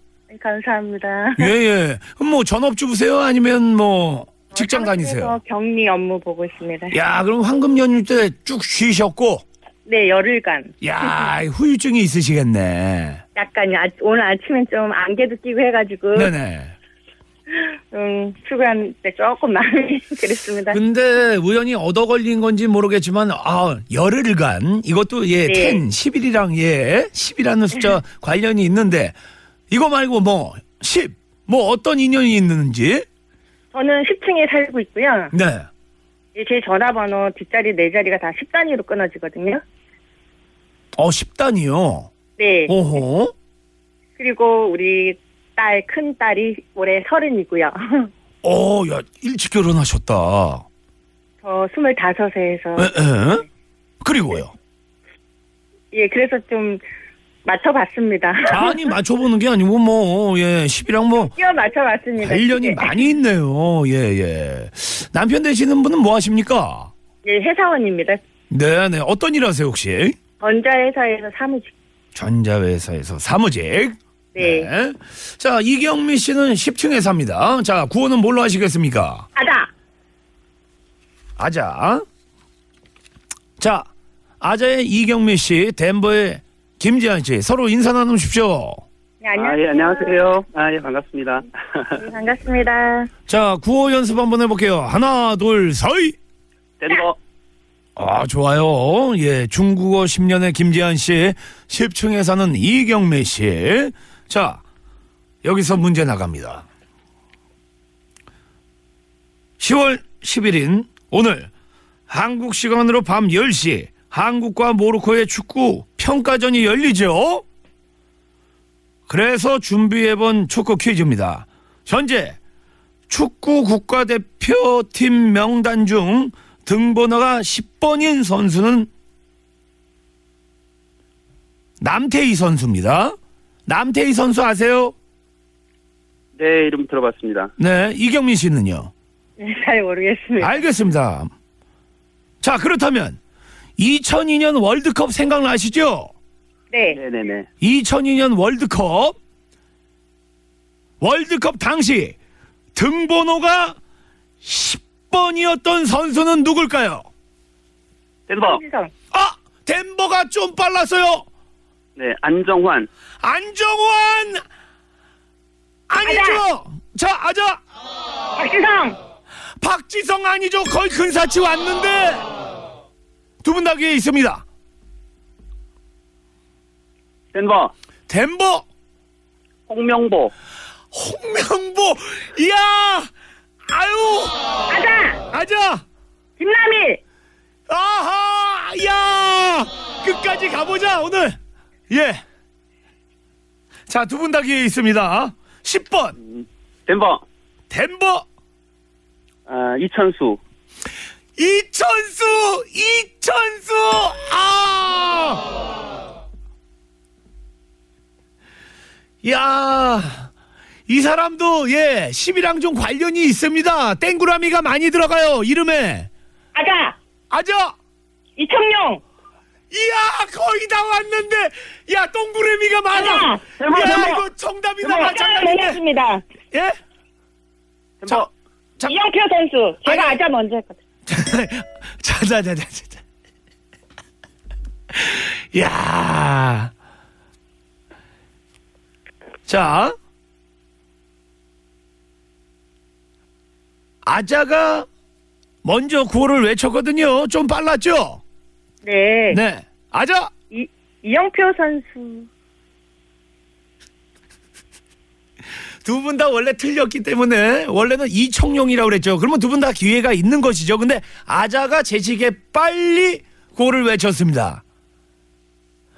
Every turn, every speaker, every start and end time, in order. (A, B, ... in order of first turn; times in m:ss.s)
0:00.3-0:01.5 A
0:01.4-0:05.4 B
0:04.5-0:07.0 A
0:06.9-0:09.4 B
0:09.9-0:10.7 A
0:10.8-0:13.2 B
0:13.4-0:16.3 A
0:16.2-0:16.8 B
0:17.5-0:20.8 A
0:20.7-0:29.2 B
0:25.5-0:25.8 A
0:29.7-0:33.1 B
0:33.7-0:35.3 A
0:35.3-0:35.7 B
0:36.4-0:39.6 A
0:41.0-0:42.1 B
0:42.4-0:42.8 A
0:42.7-0:43.3 B
0:44.2-0:48.1 A
0:48.4-0:50.7 B
0:51.4-0:53.0 A
0:52.8-0:53.4 B
0:54.0-0:54.5 B
0:55.9-0:56.8 A
0:57.4-0:58.9 A
0:58.5-1:01.3 B
1:01.2-1:02.9 A
1:02.2-1:06.9 B
1:07.2-1:08.2 A
1:08.5-1:10.2 B
1:10.4-1:11.7 A
1:12.2-1:19.2 B
1:14.4-1:14.7 A
1:19.4-1:19.7 A
1:21.4-1:22.0 B
1:23.6-1:23.9 B
1:24.4-1:28.8 B
1:29.2-1:30.3 A
1:29.4-1:32.0 C
1:32.0-1:33.1 A
1:33.3-1:36.2 B
1:36.8-1:37.2 C
1:38.0-1:44.6 B
1:45.4-1:46.7 B
1:49.6-1:51.5 B
1:52.1-1:57.4 B
1:59.1-2:02.4 B
2:03.1-2:08.9 B
2:11.8-2:13.2 B
2:13.7-2:15.0 B
2:16.4-2:17.5 C
2:17.6-2:18.9 B
2:19.4-2:20.6 A
2:20.4-2:21.3 B
2:22.4-2:23.2 B
2:23.8-2:26.1 B
2:26.7-2:27.0 A
2:26.9-2:27.5 C
2:27.6-2:29.2 B
2:31.0-2:32.2 B
2:32.8-2:33.8 B
2:34.4-2:37.1 B
2:38.3-2:38.6 C
2:38.4-2:38.9 A
2:39.1-2:41.2 B
2:42.0-2:42.9 C
2:43.2-2:44.4 B
2:45.9-2:47.6 B
2:46.0-2:46.4 A
2:48.4-2:49.0 A
2:49.6-2:52.3 B
2:53.4-2:54.4 B
2:57.3-2:57.7 C
2:58.1-2:58.7 B
2:59.7-3:00.3 C
3:00.9-3:03.1 B
3:03.7-3:04.3 B
3:04.7-3:05.2 A
3:05.3-3:05.8 B
3:06.4-3:07.0 A
3:07.7-3:11.4 B
3:11.9-3:12.2 B
3:13.9-3:16.2 B
3:16.2-3:17.2 C
3:17.7-3:18.2 B
3:19.5-3:20.4 C
3:21.4-3:25.5 B
3:29.2-3:30.3 B
3:30.9-3:36.1 B
3:36.6-3:37.0 A
3:37.3-3:37.7 B
3:38.4-3:39.0 A
3:39.7-3:45.8 B
3:42.9-3:44.2 A
3:44.8-3:46.2 A
3:48.0-3:48.3 C
3:48.9-3:50.8 A
3:49.8-3:50.2 B
3:51.1-3:53.0 B
3:54.9-3:56.7 B
3:59.5-4:00.0 B
4:04.0-4:04.9 B
4:05.6-4:08.2 B
4:08.8-4:09.4 A
4:09.3-4:10.3 B
4:10.5-4:12.3 A
4:15.8-4:24.6 B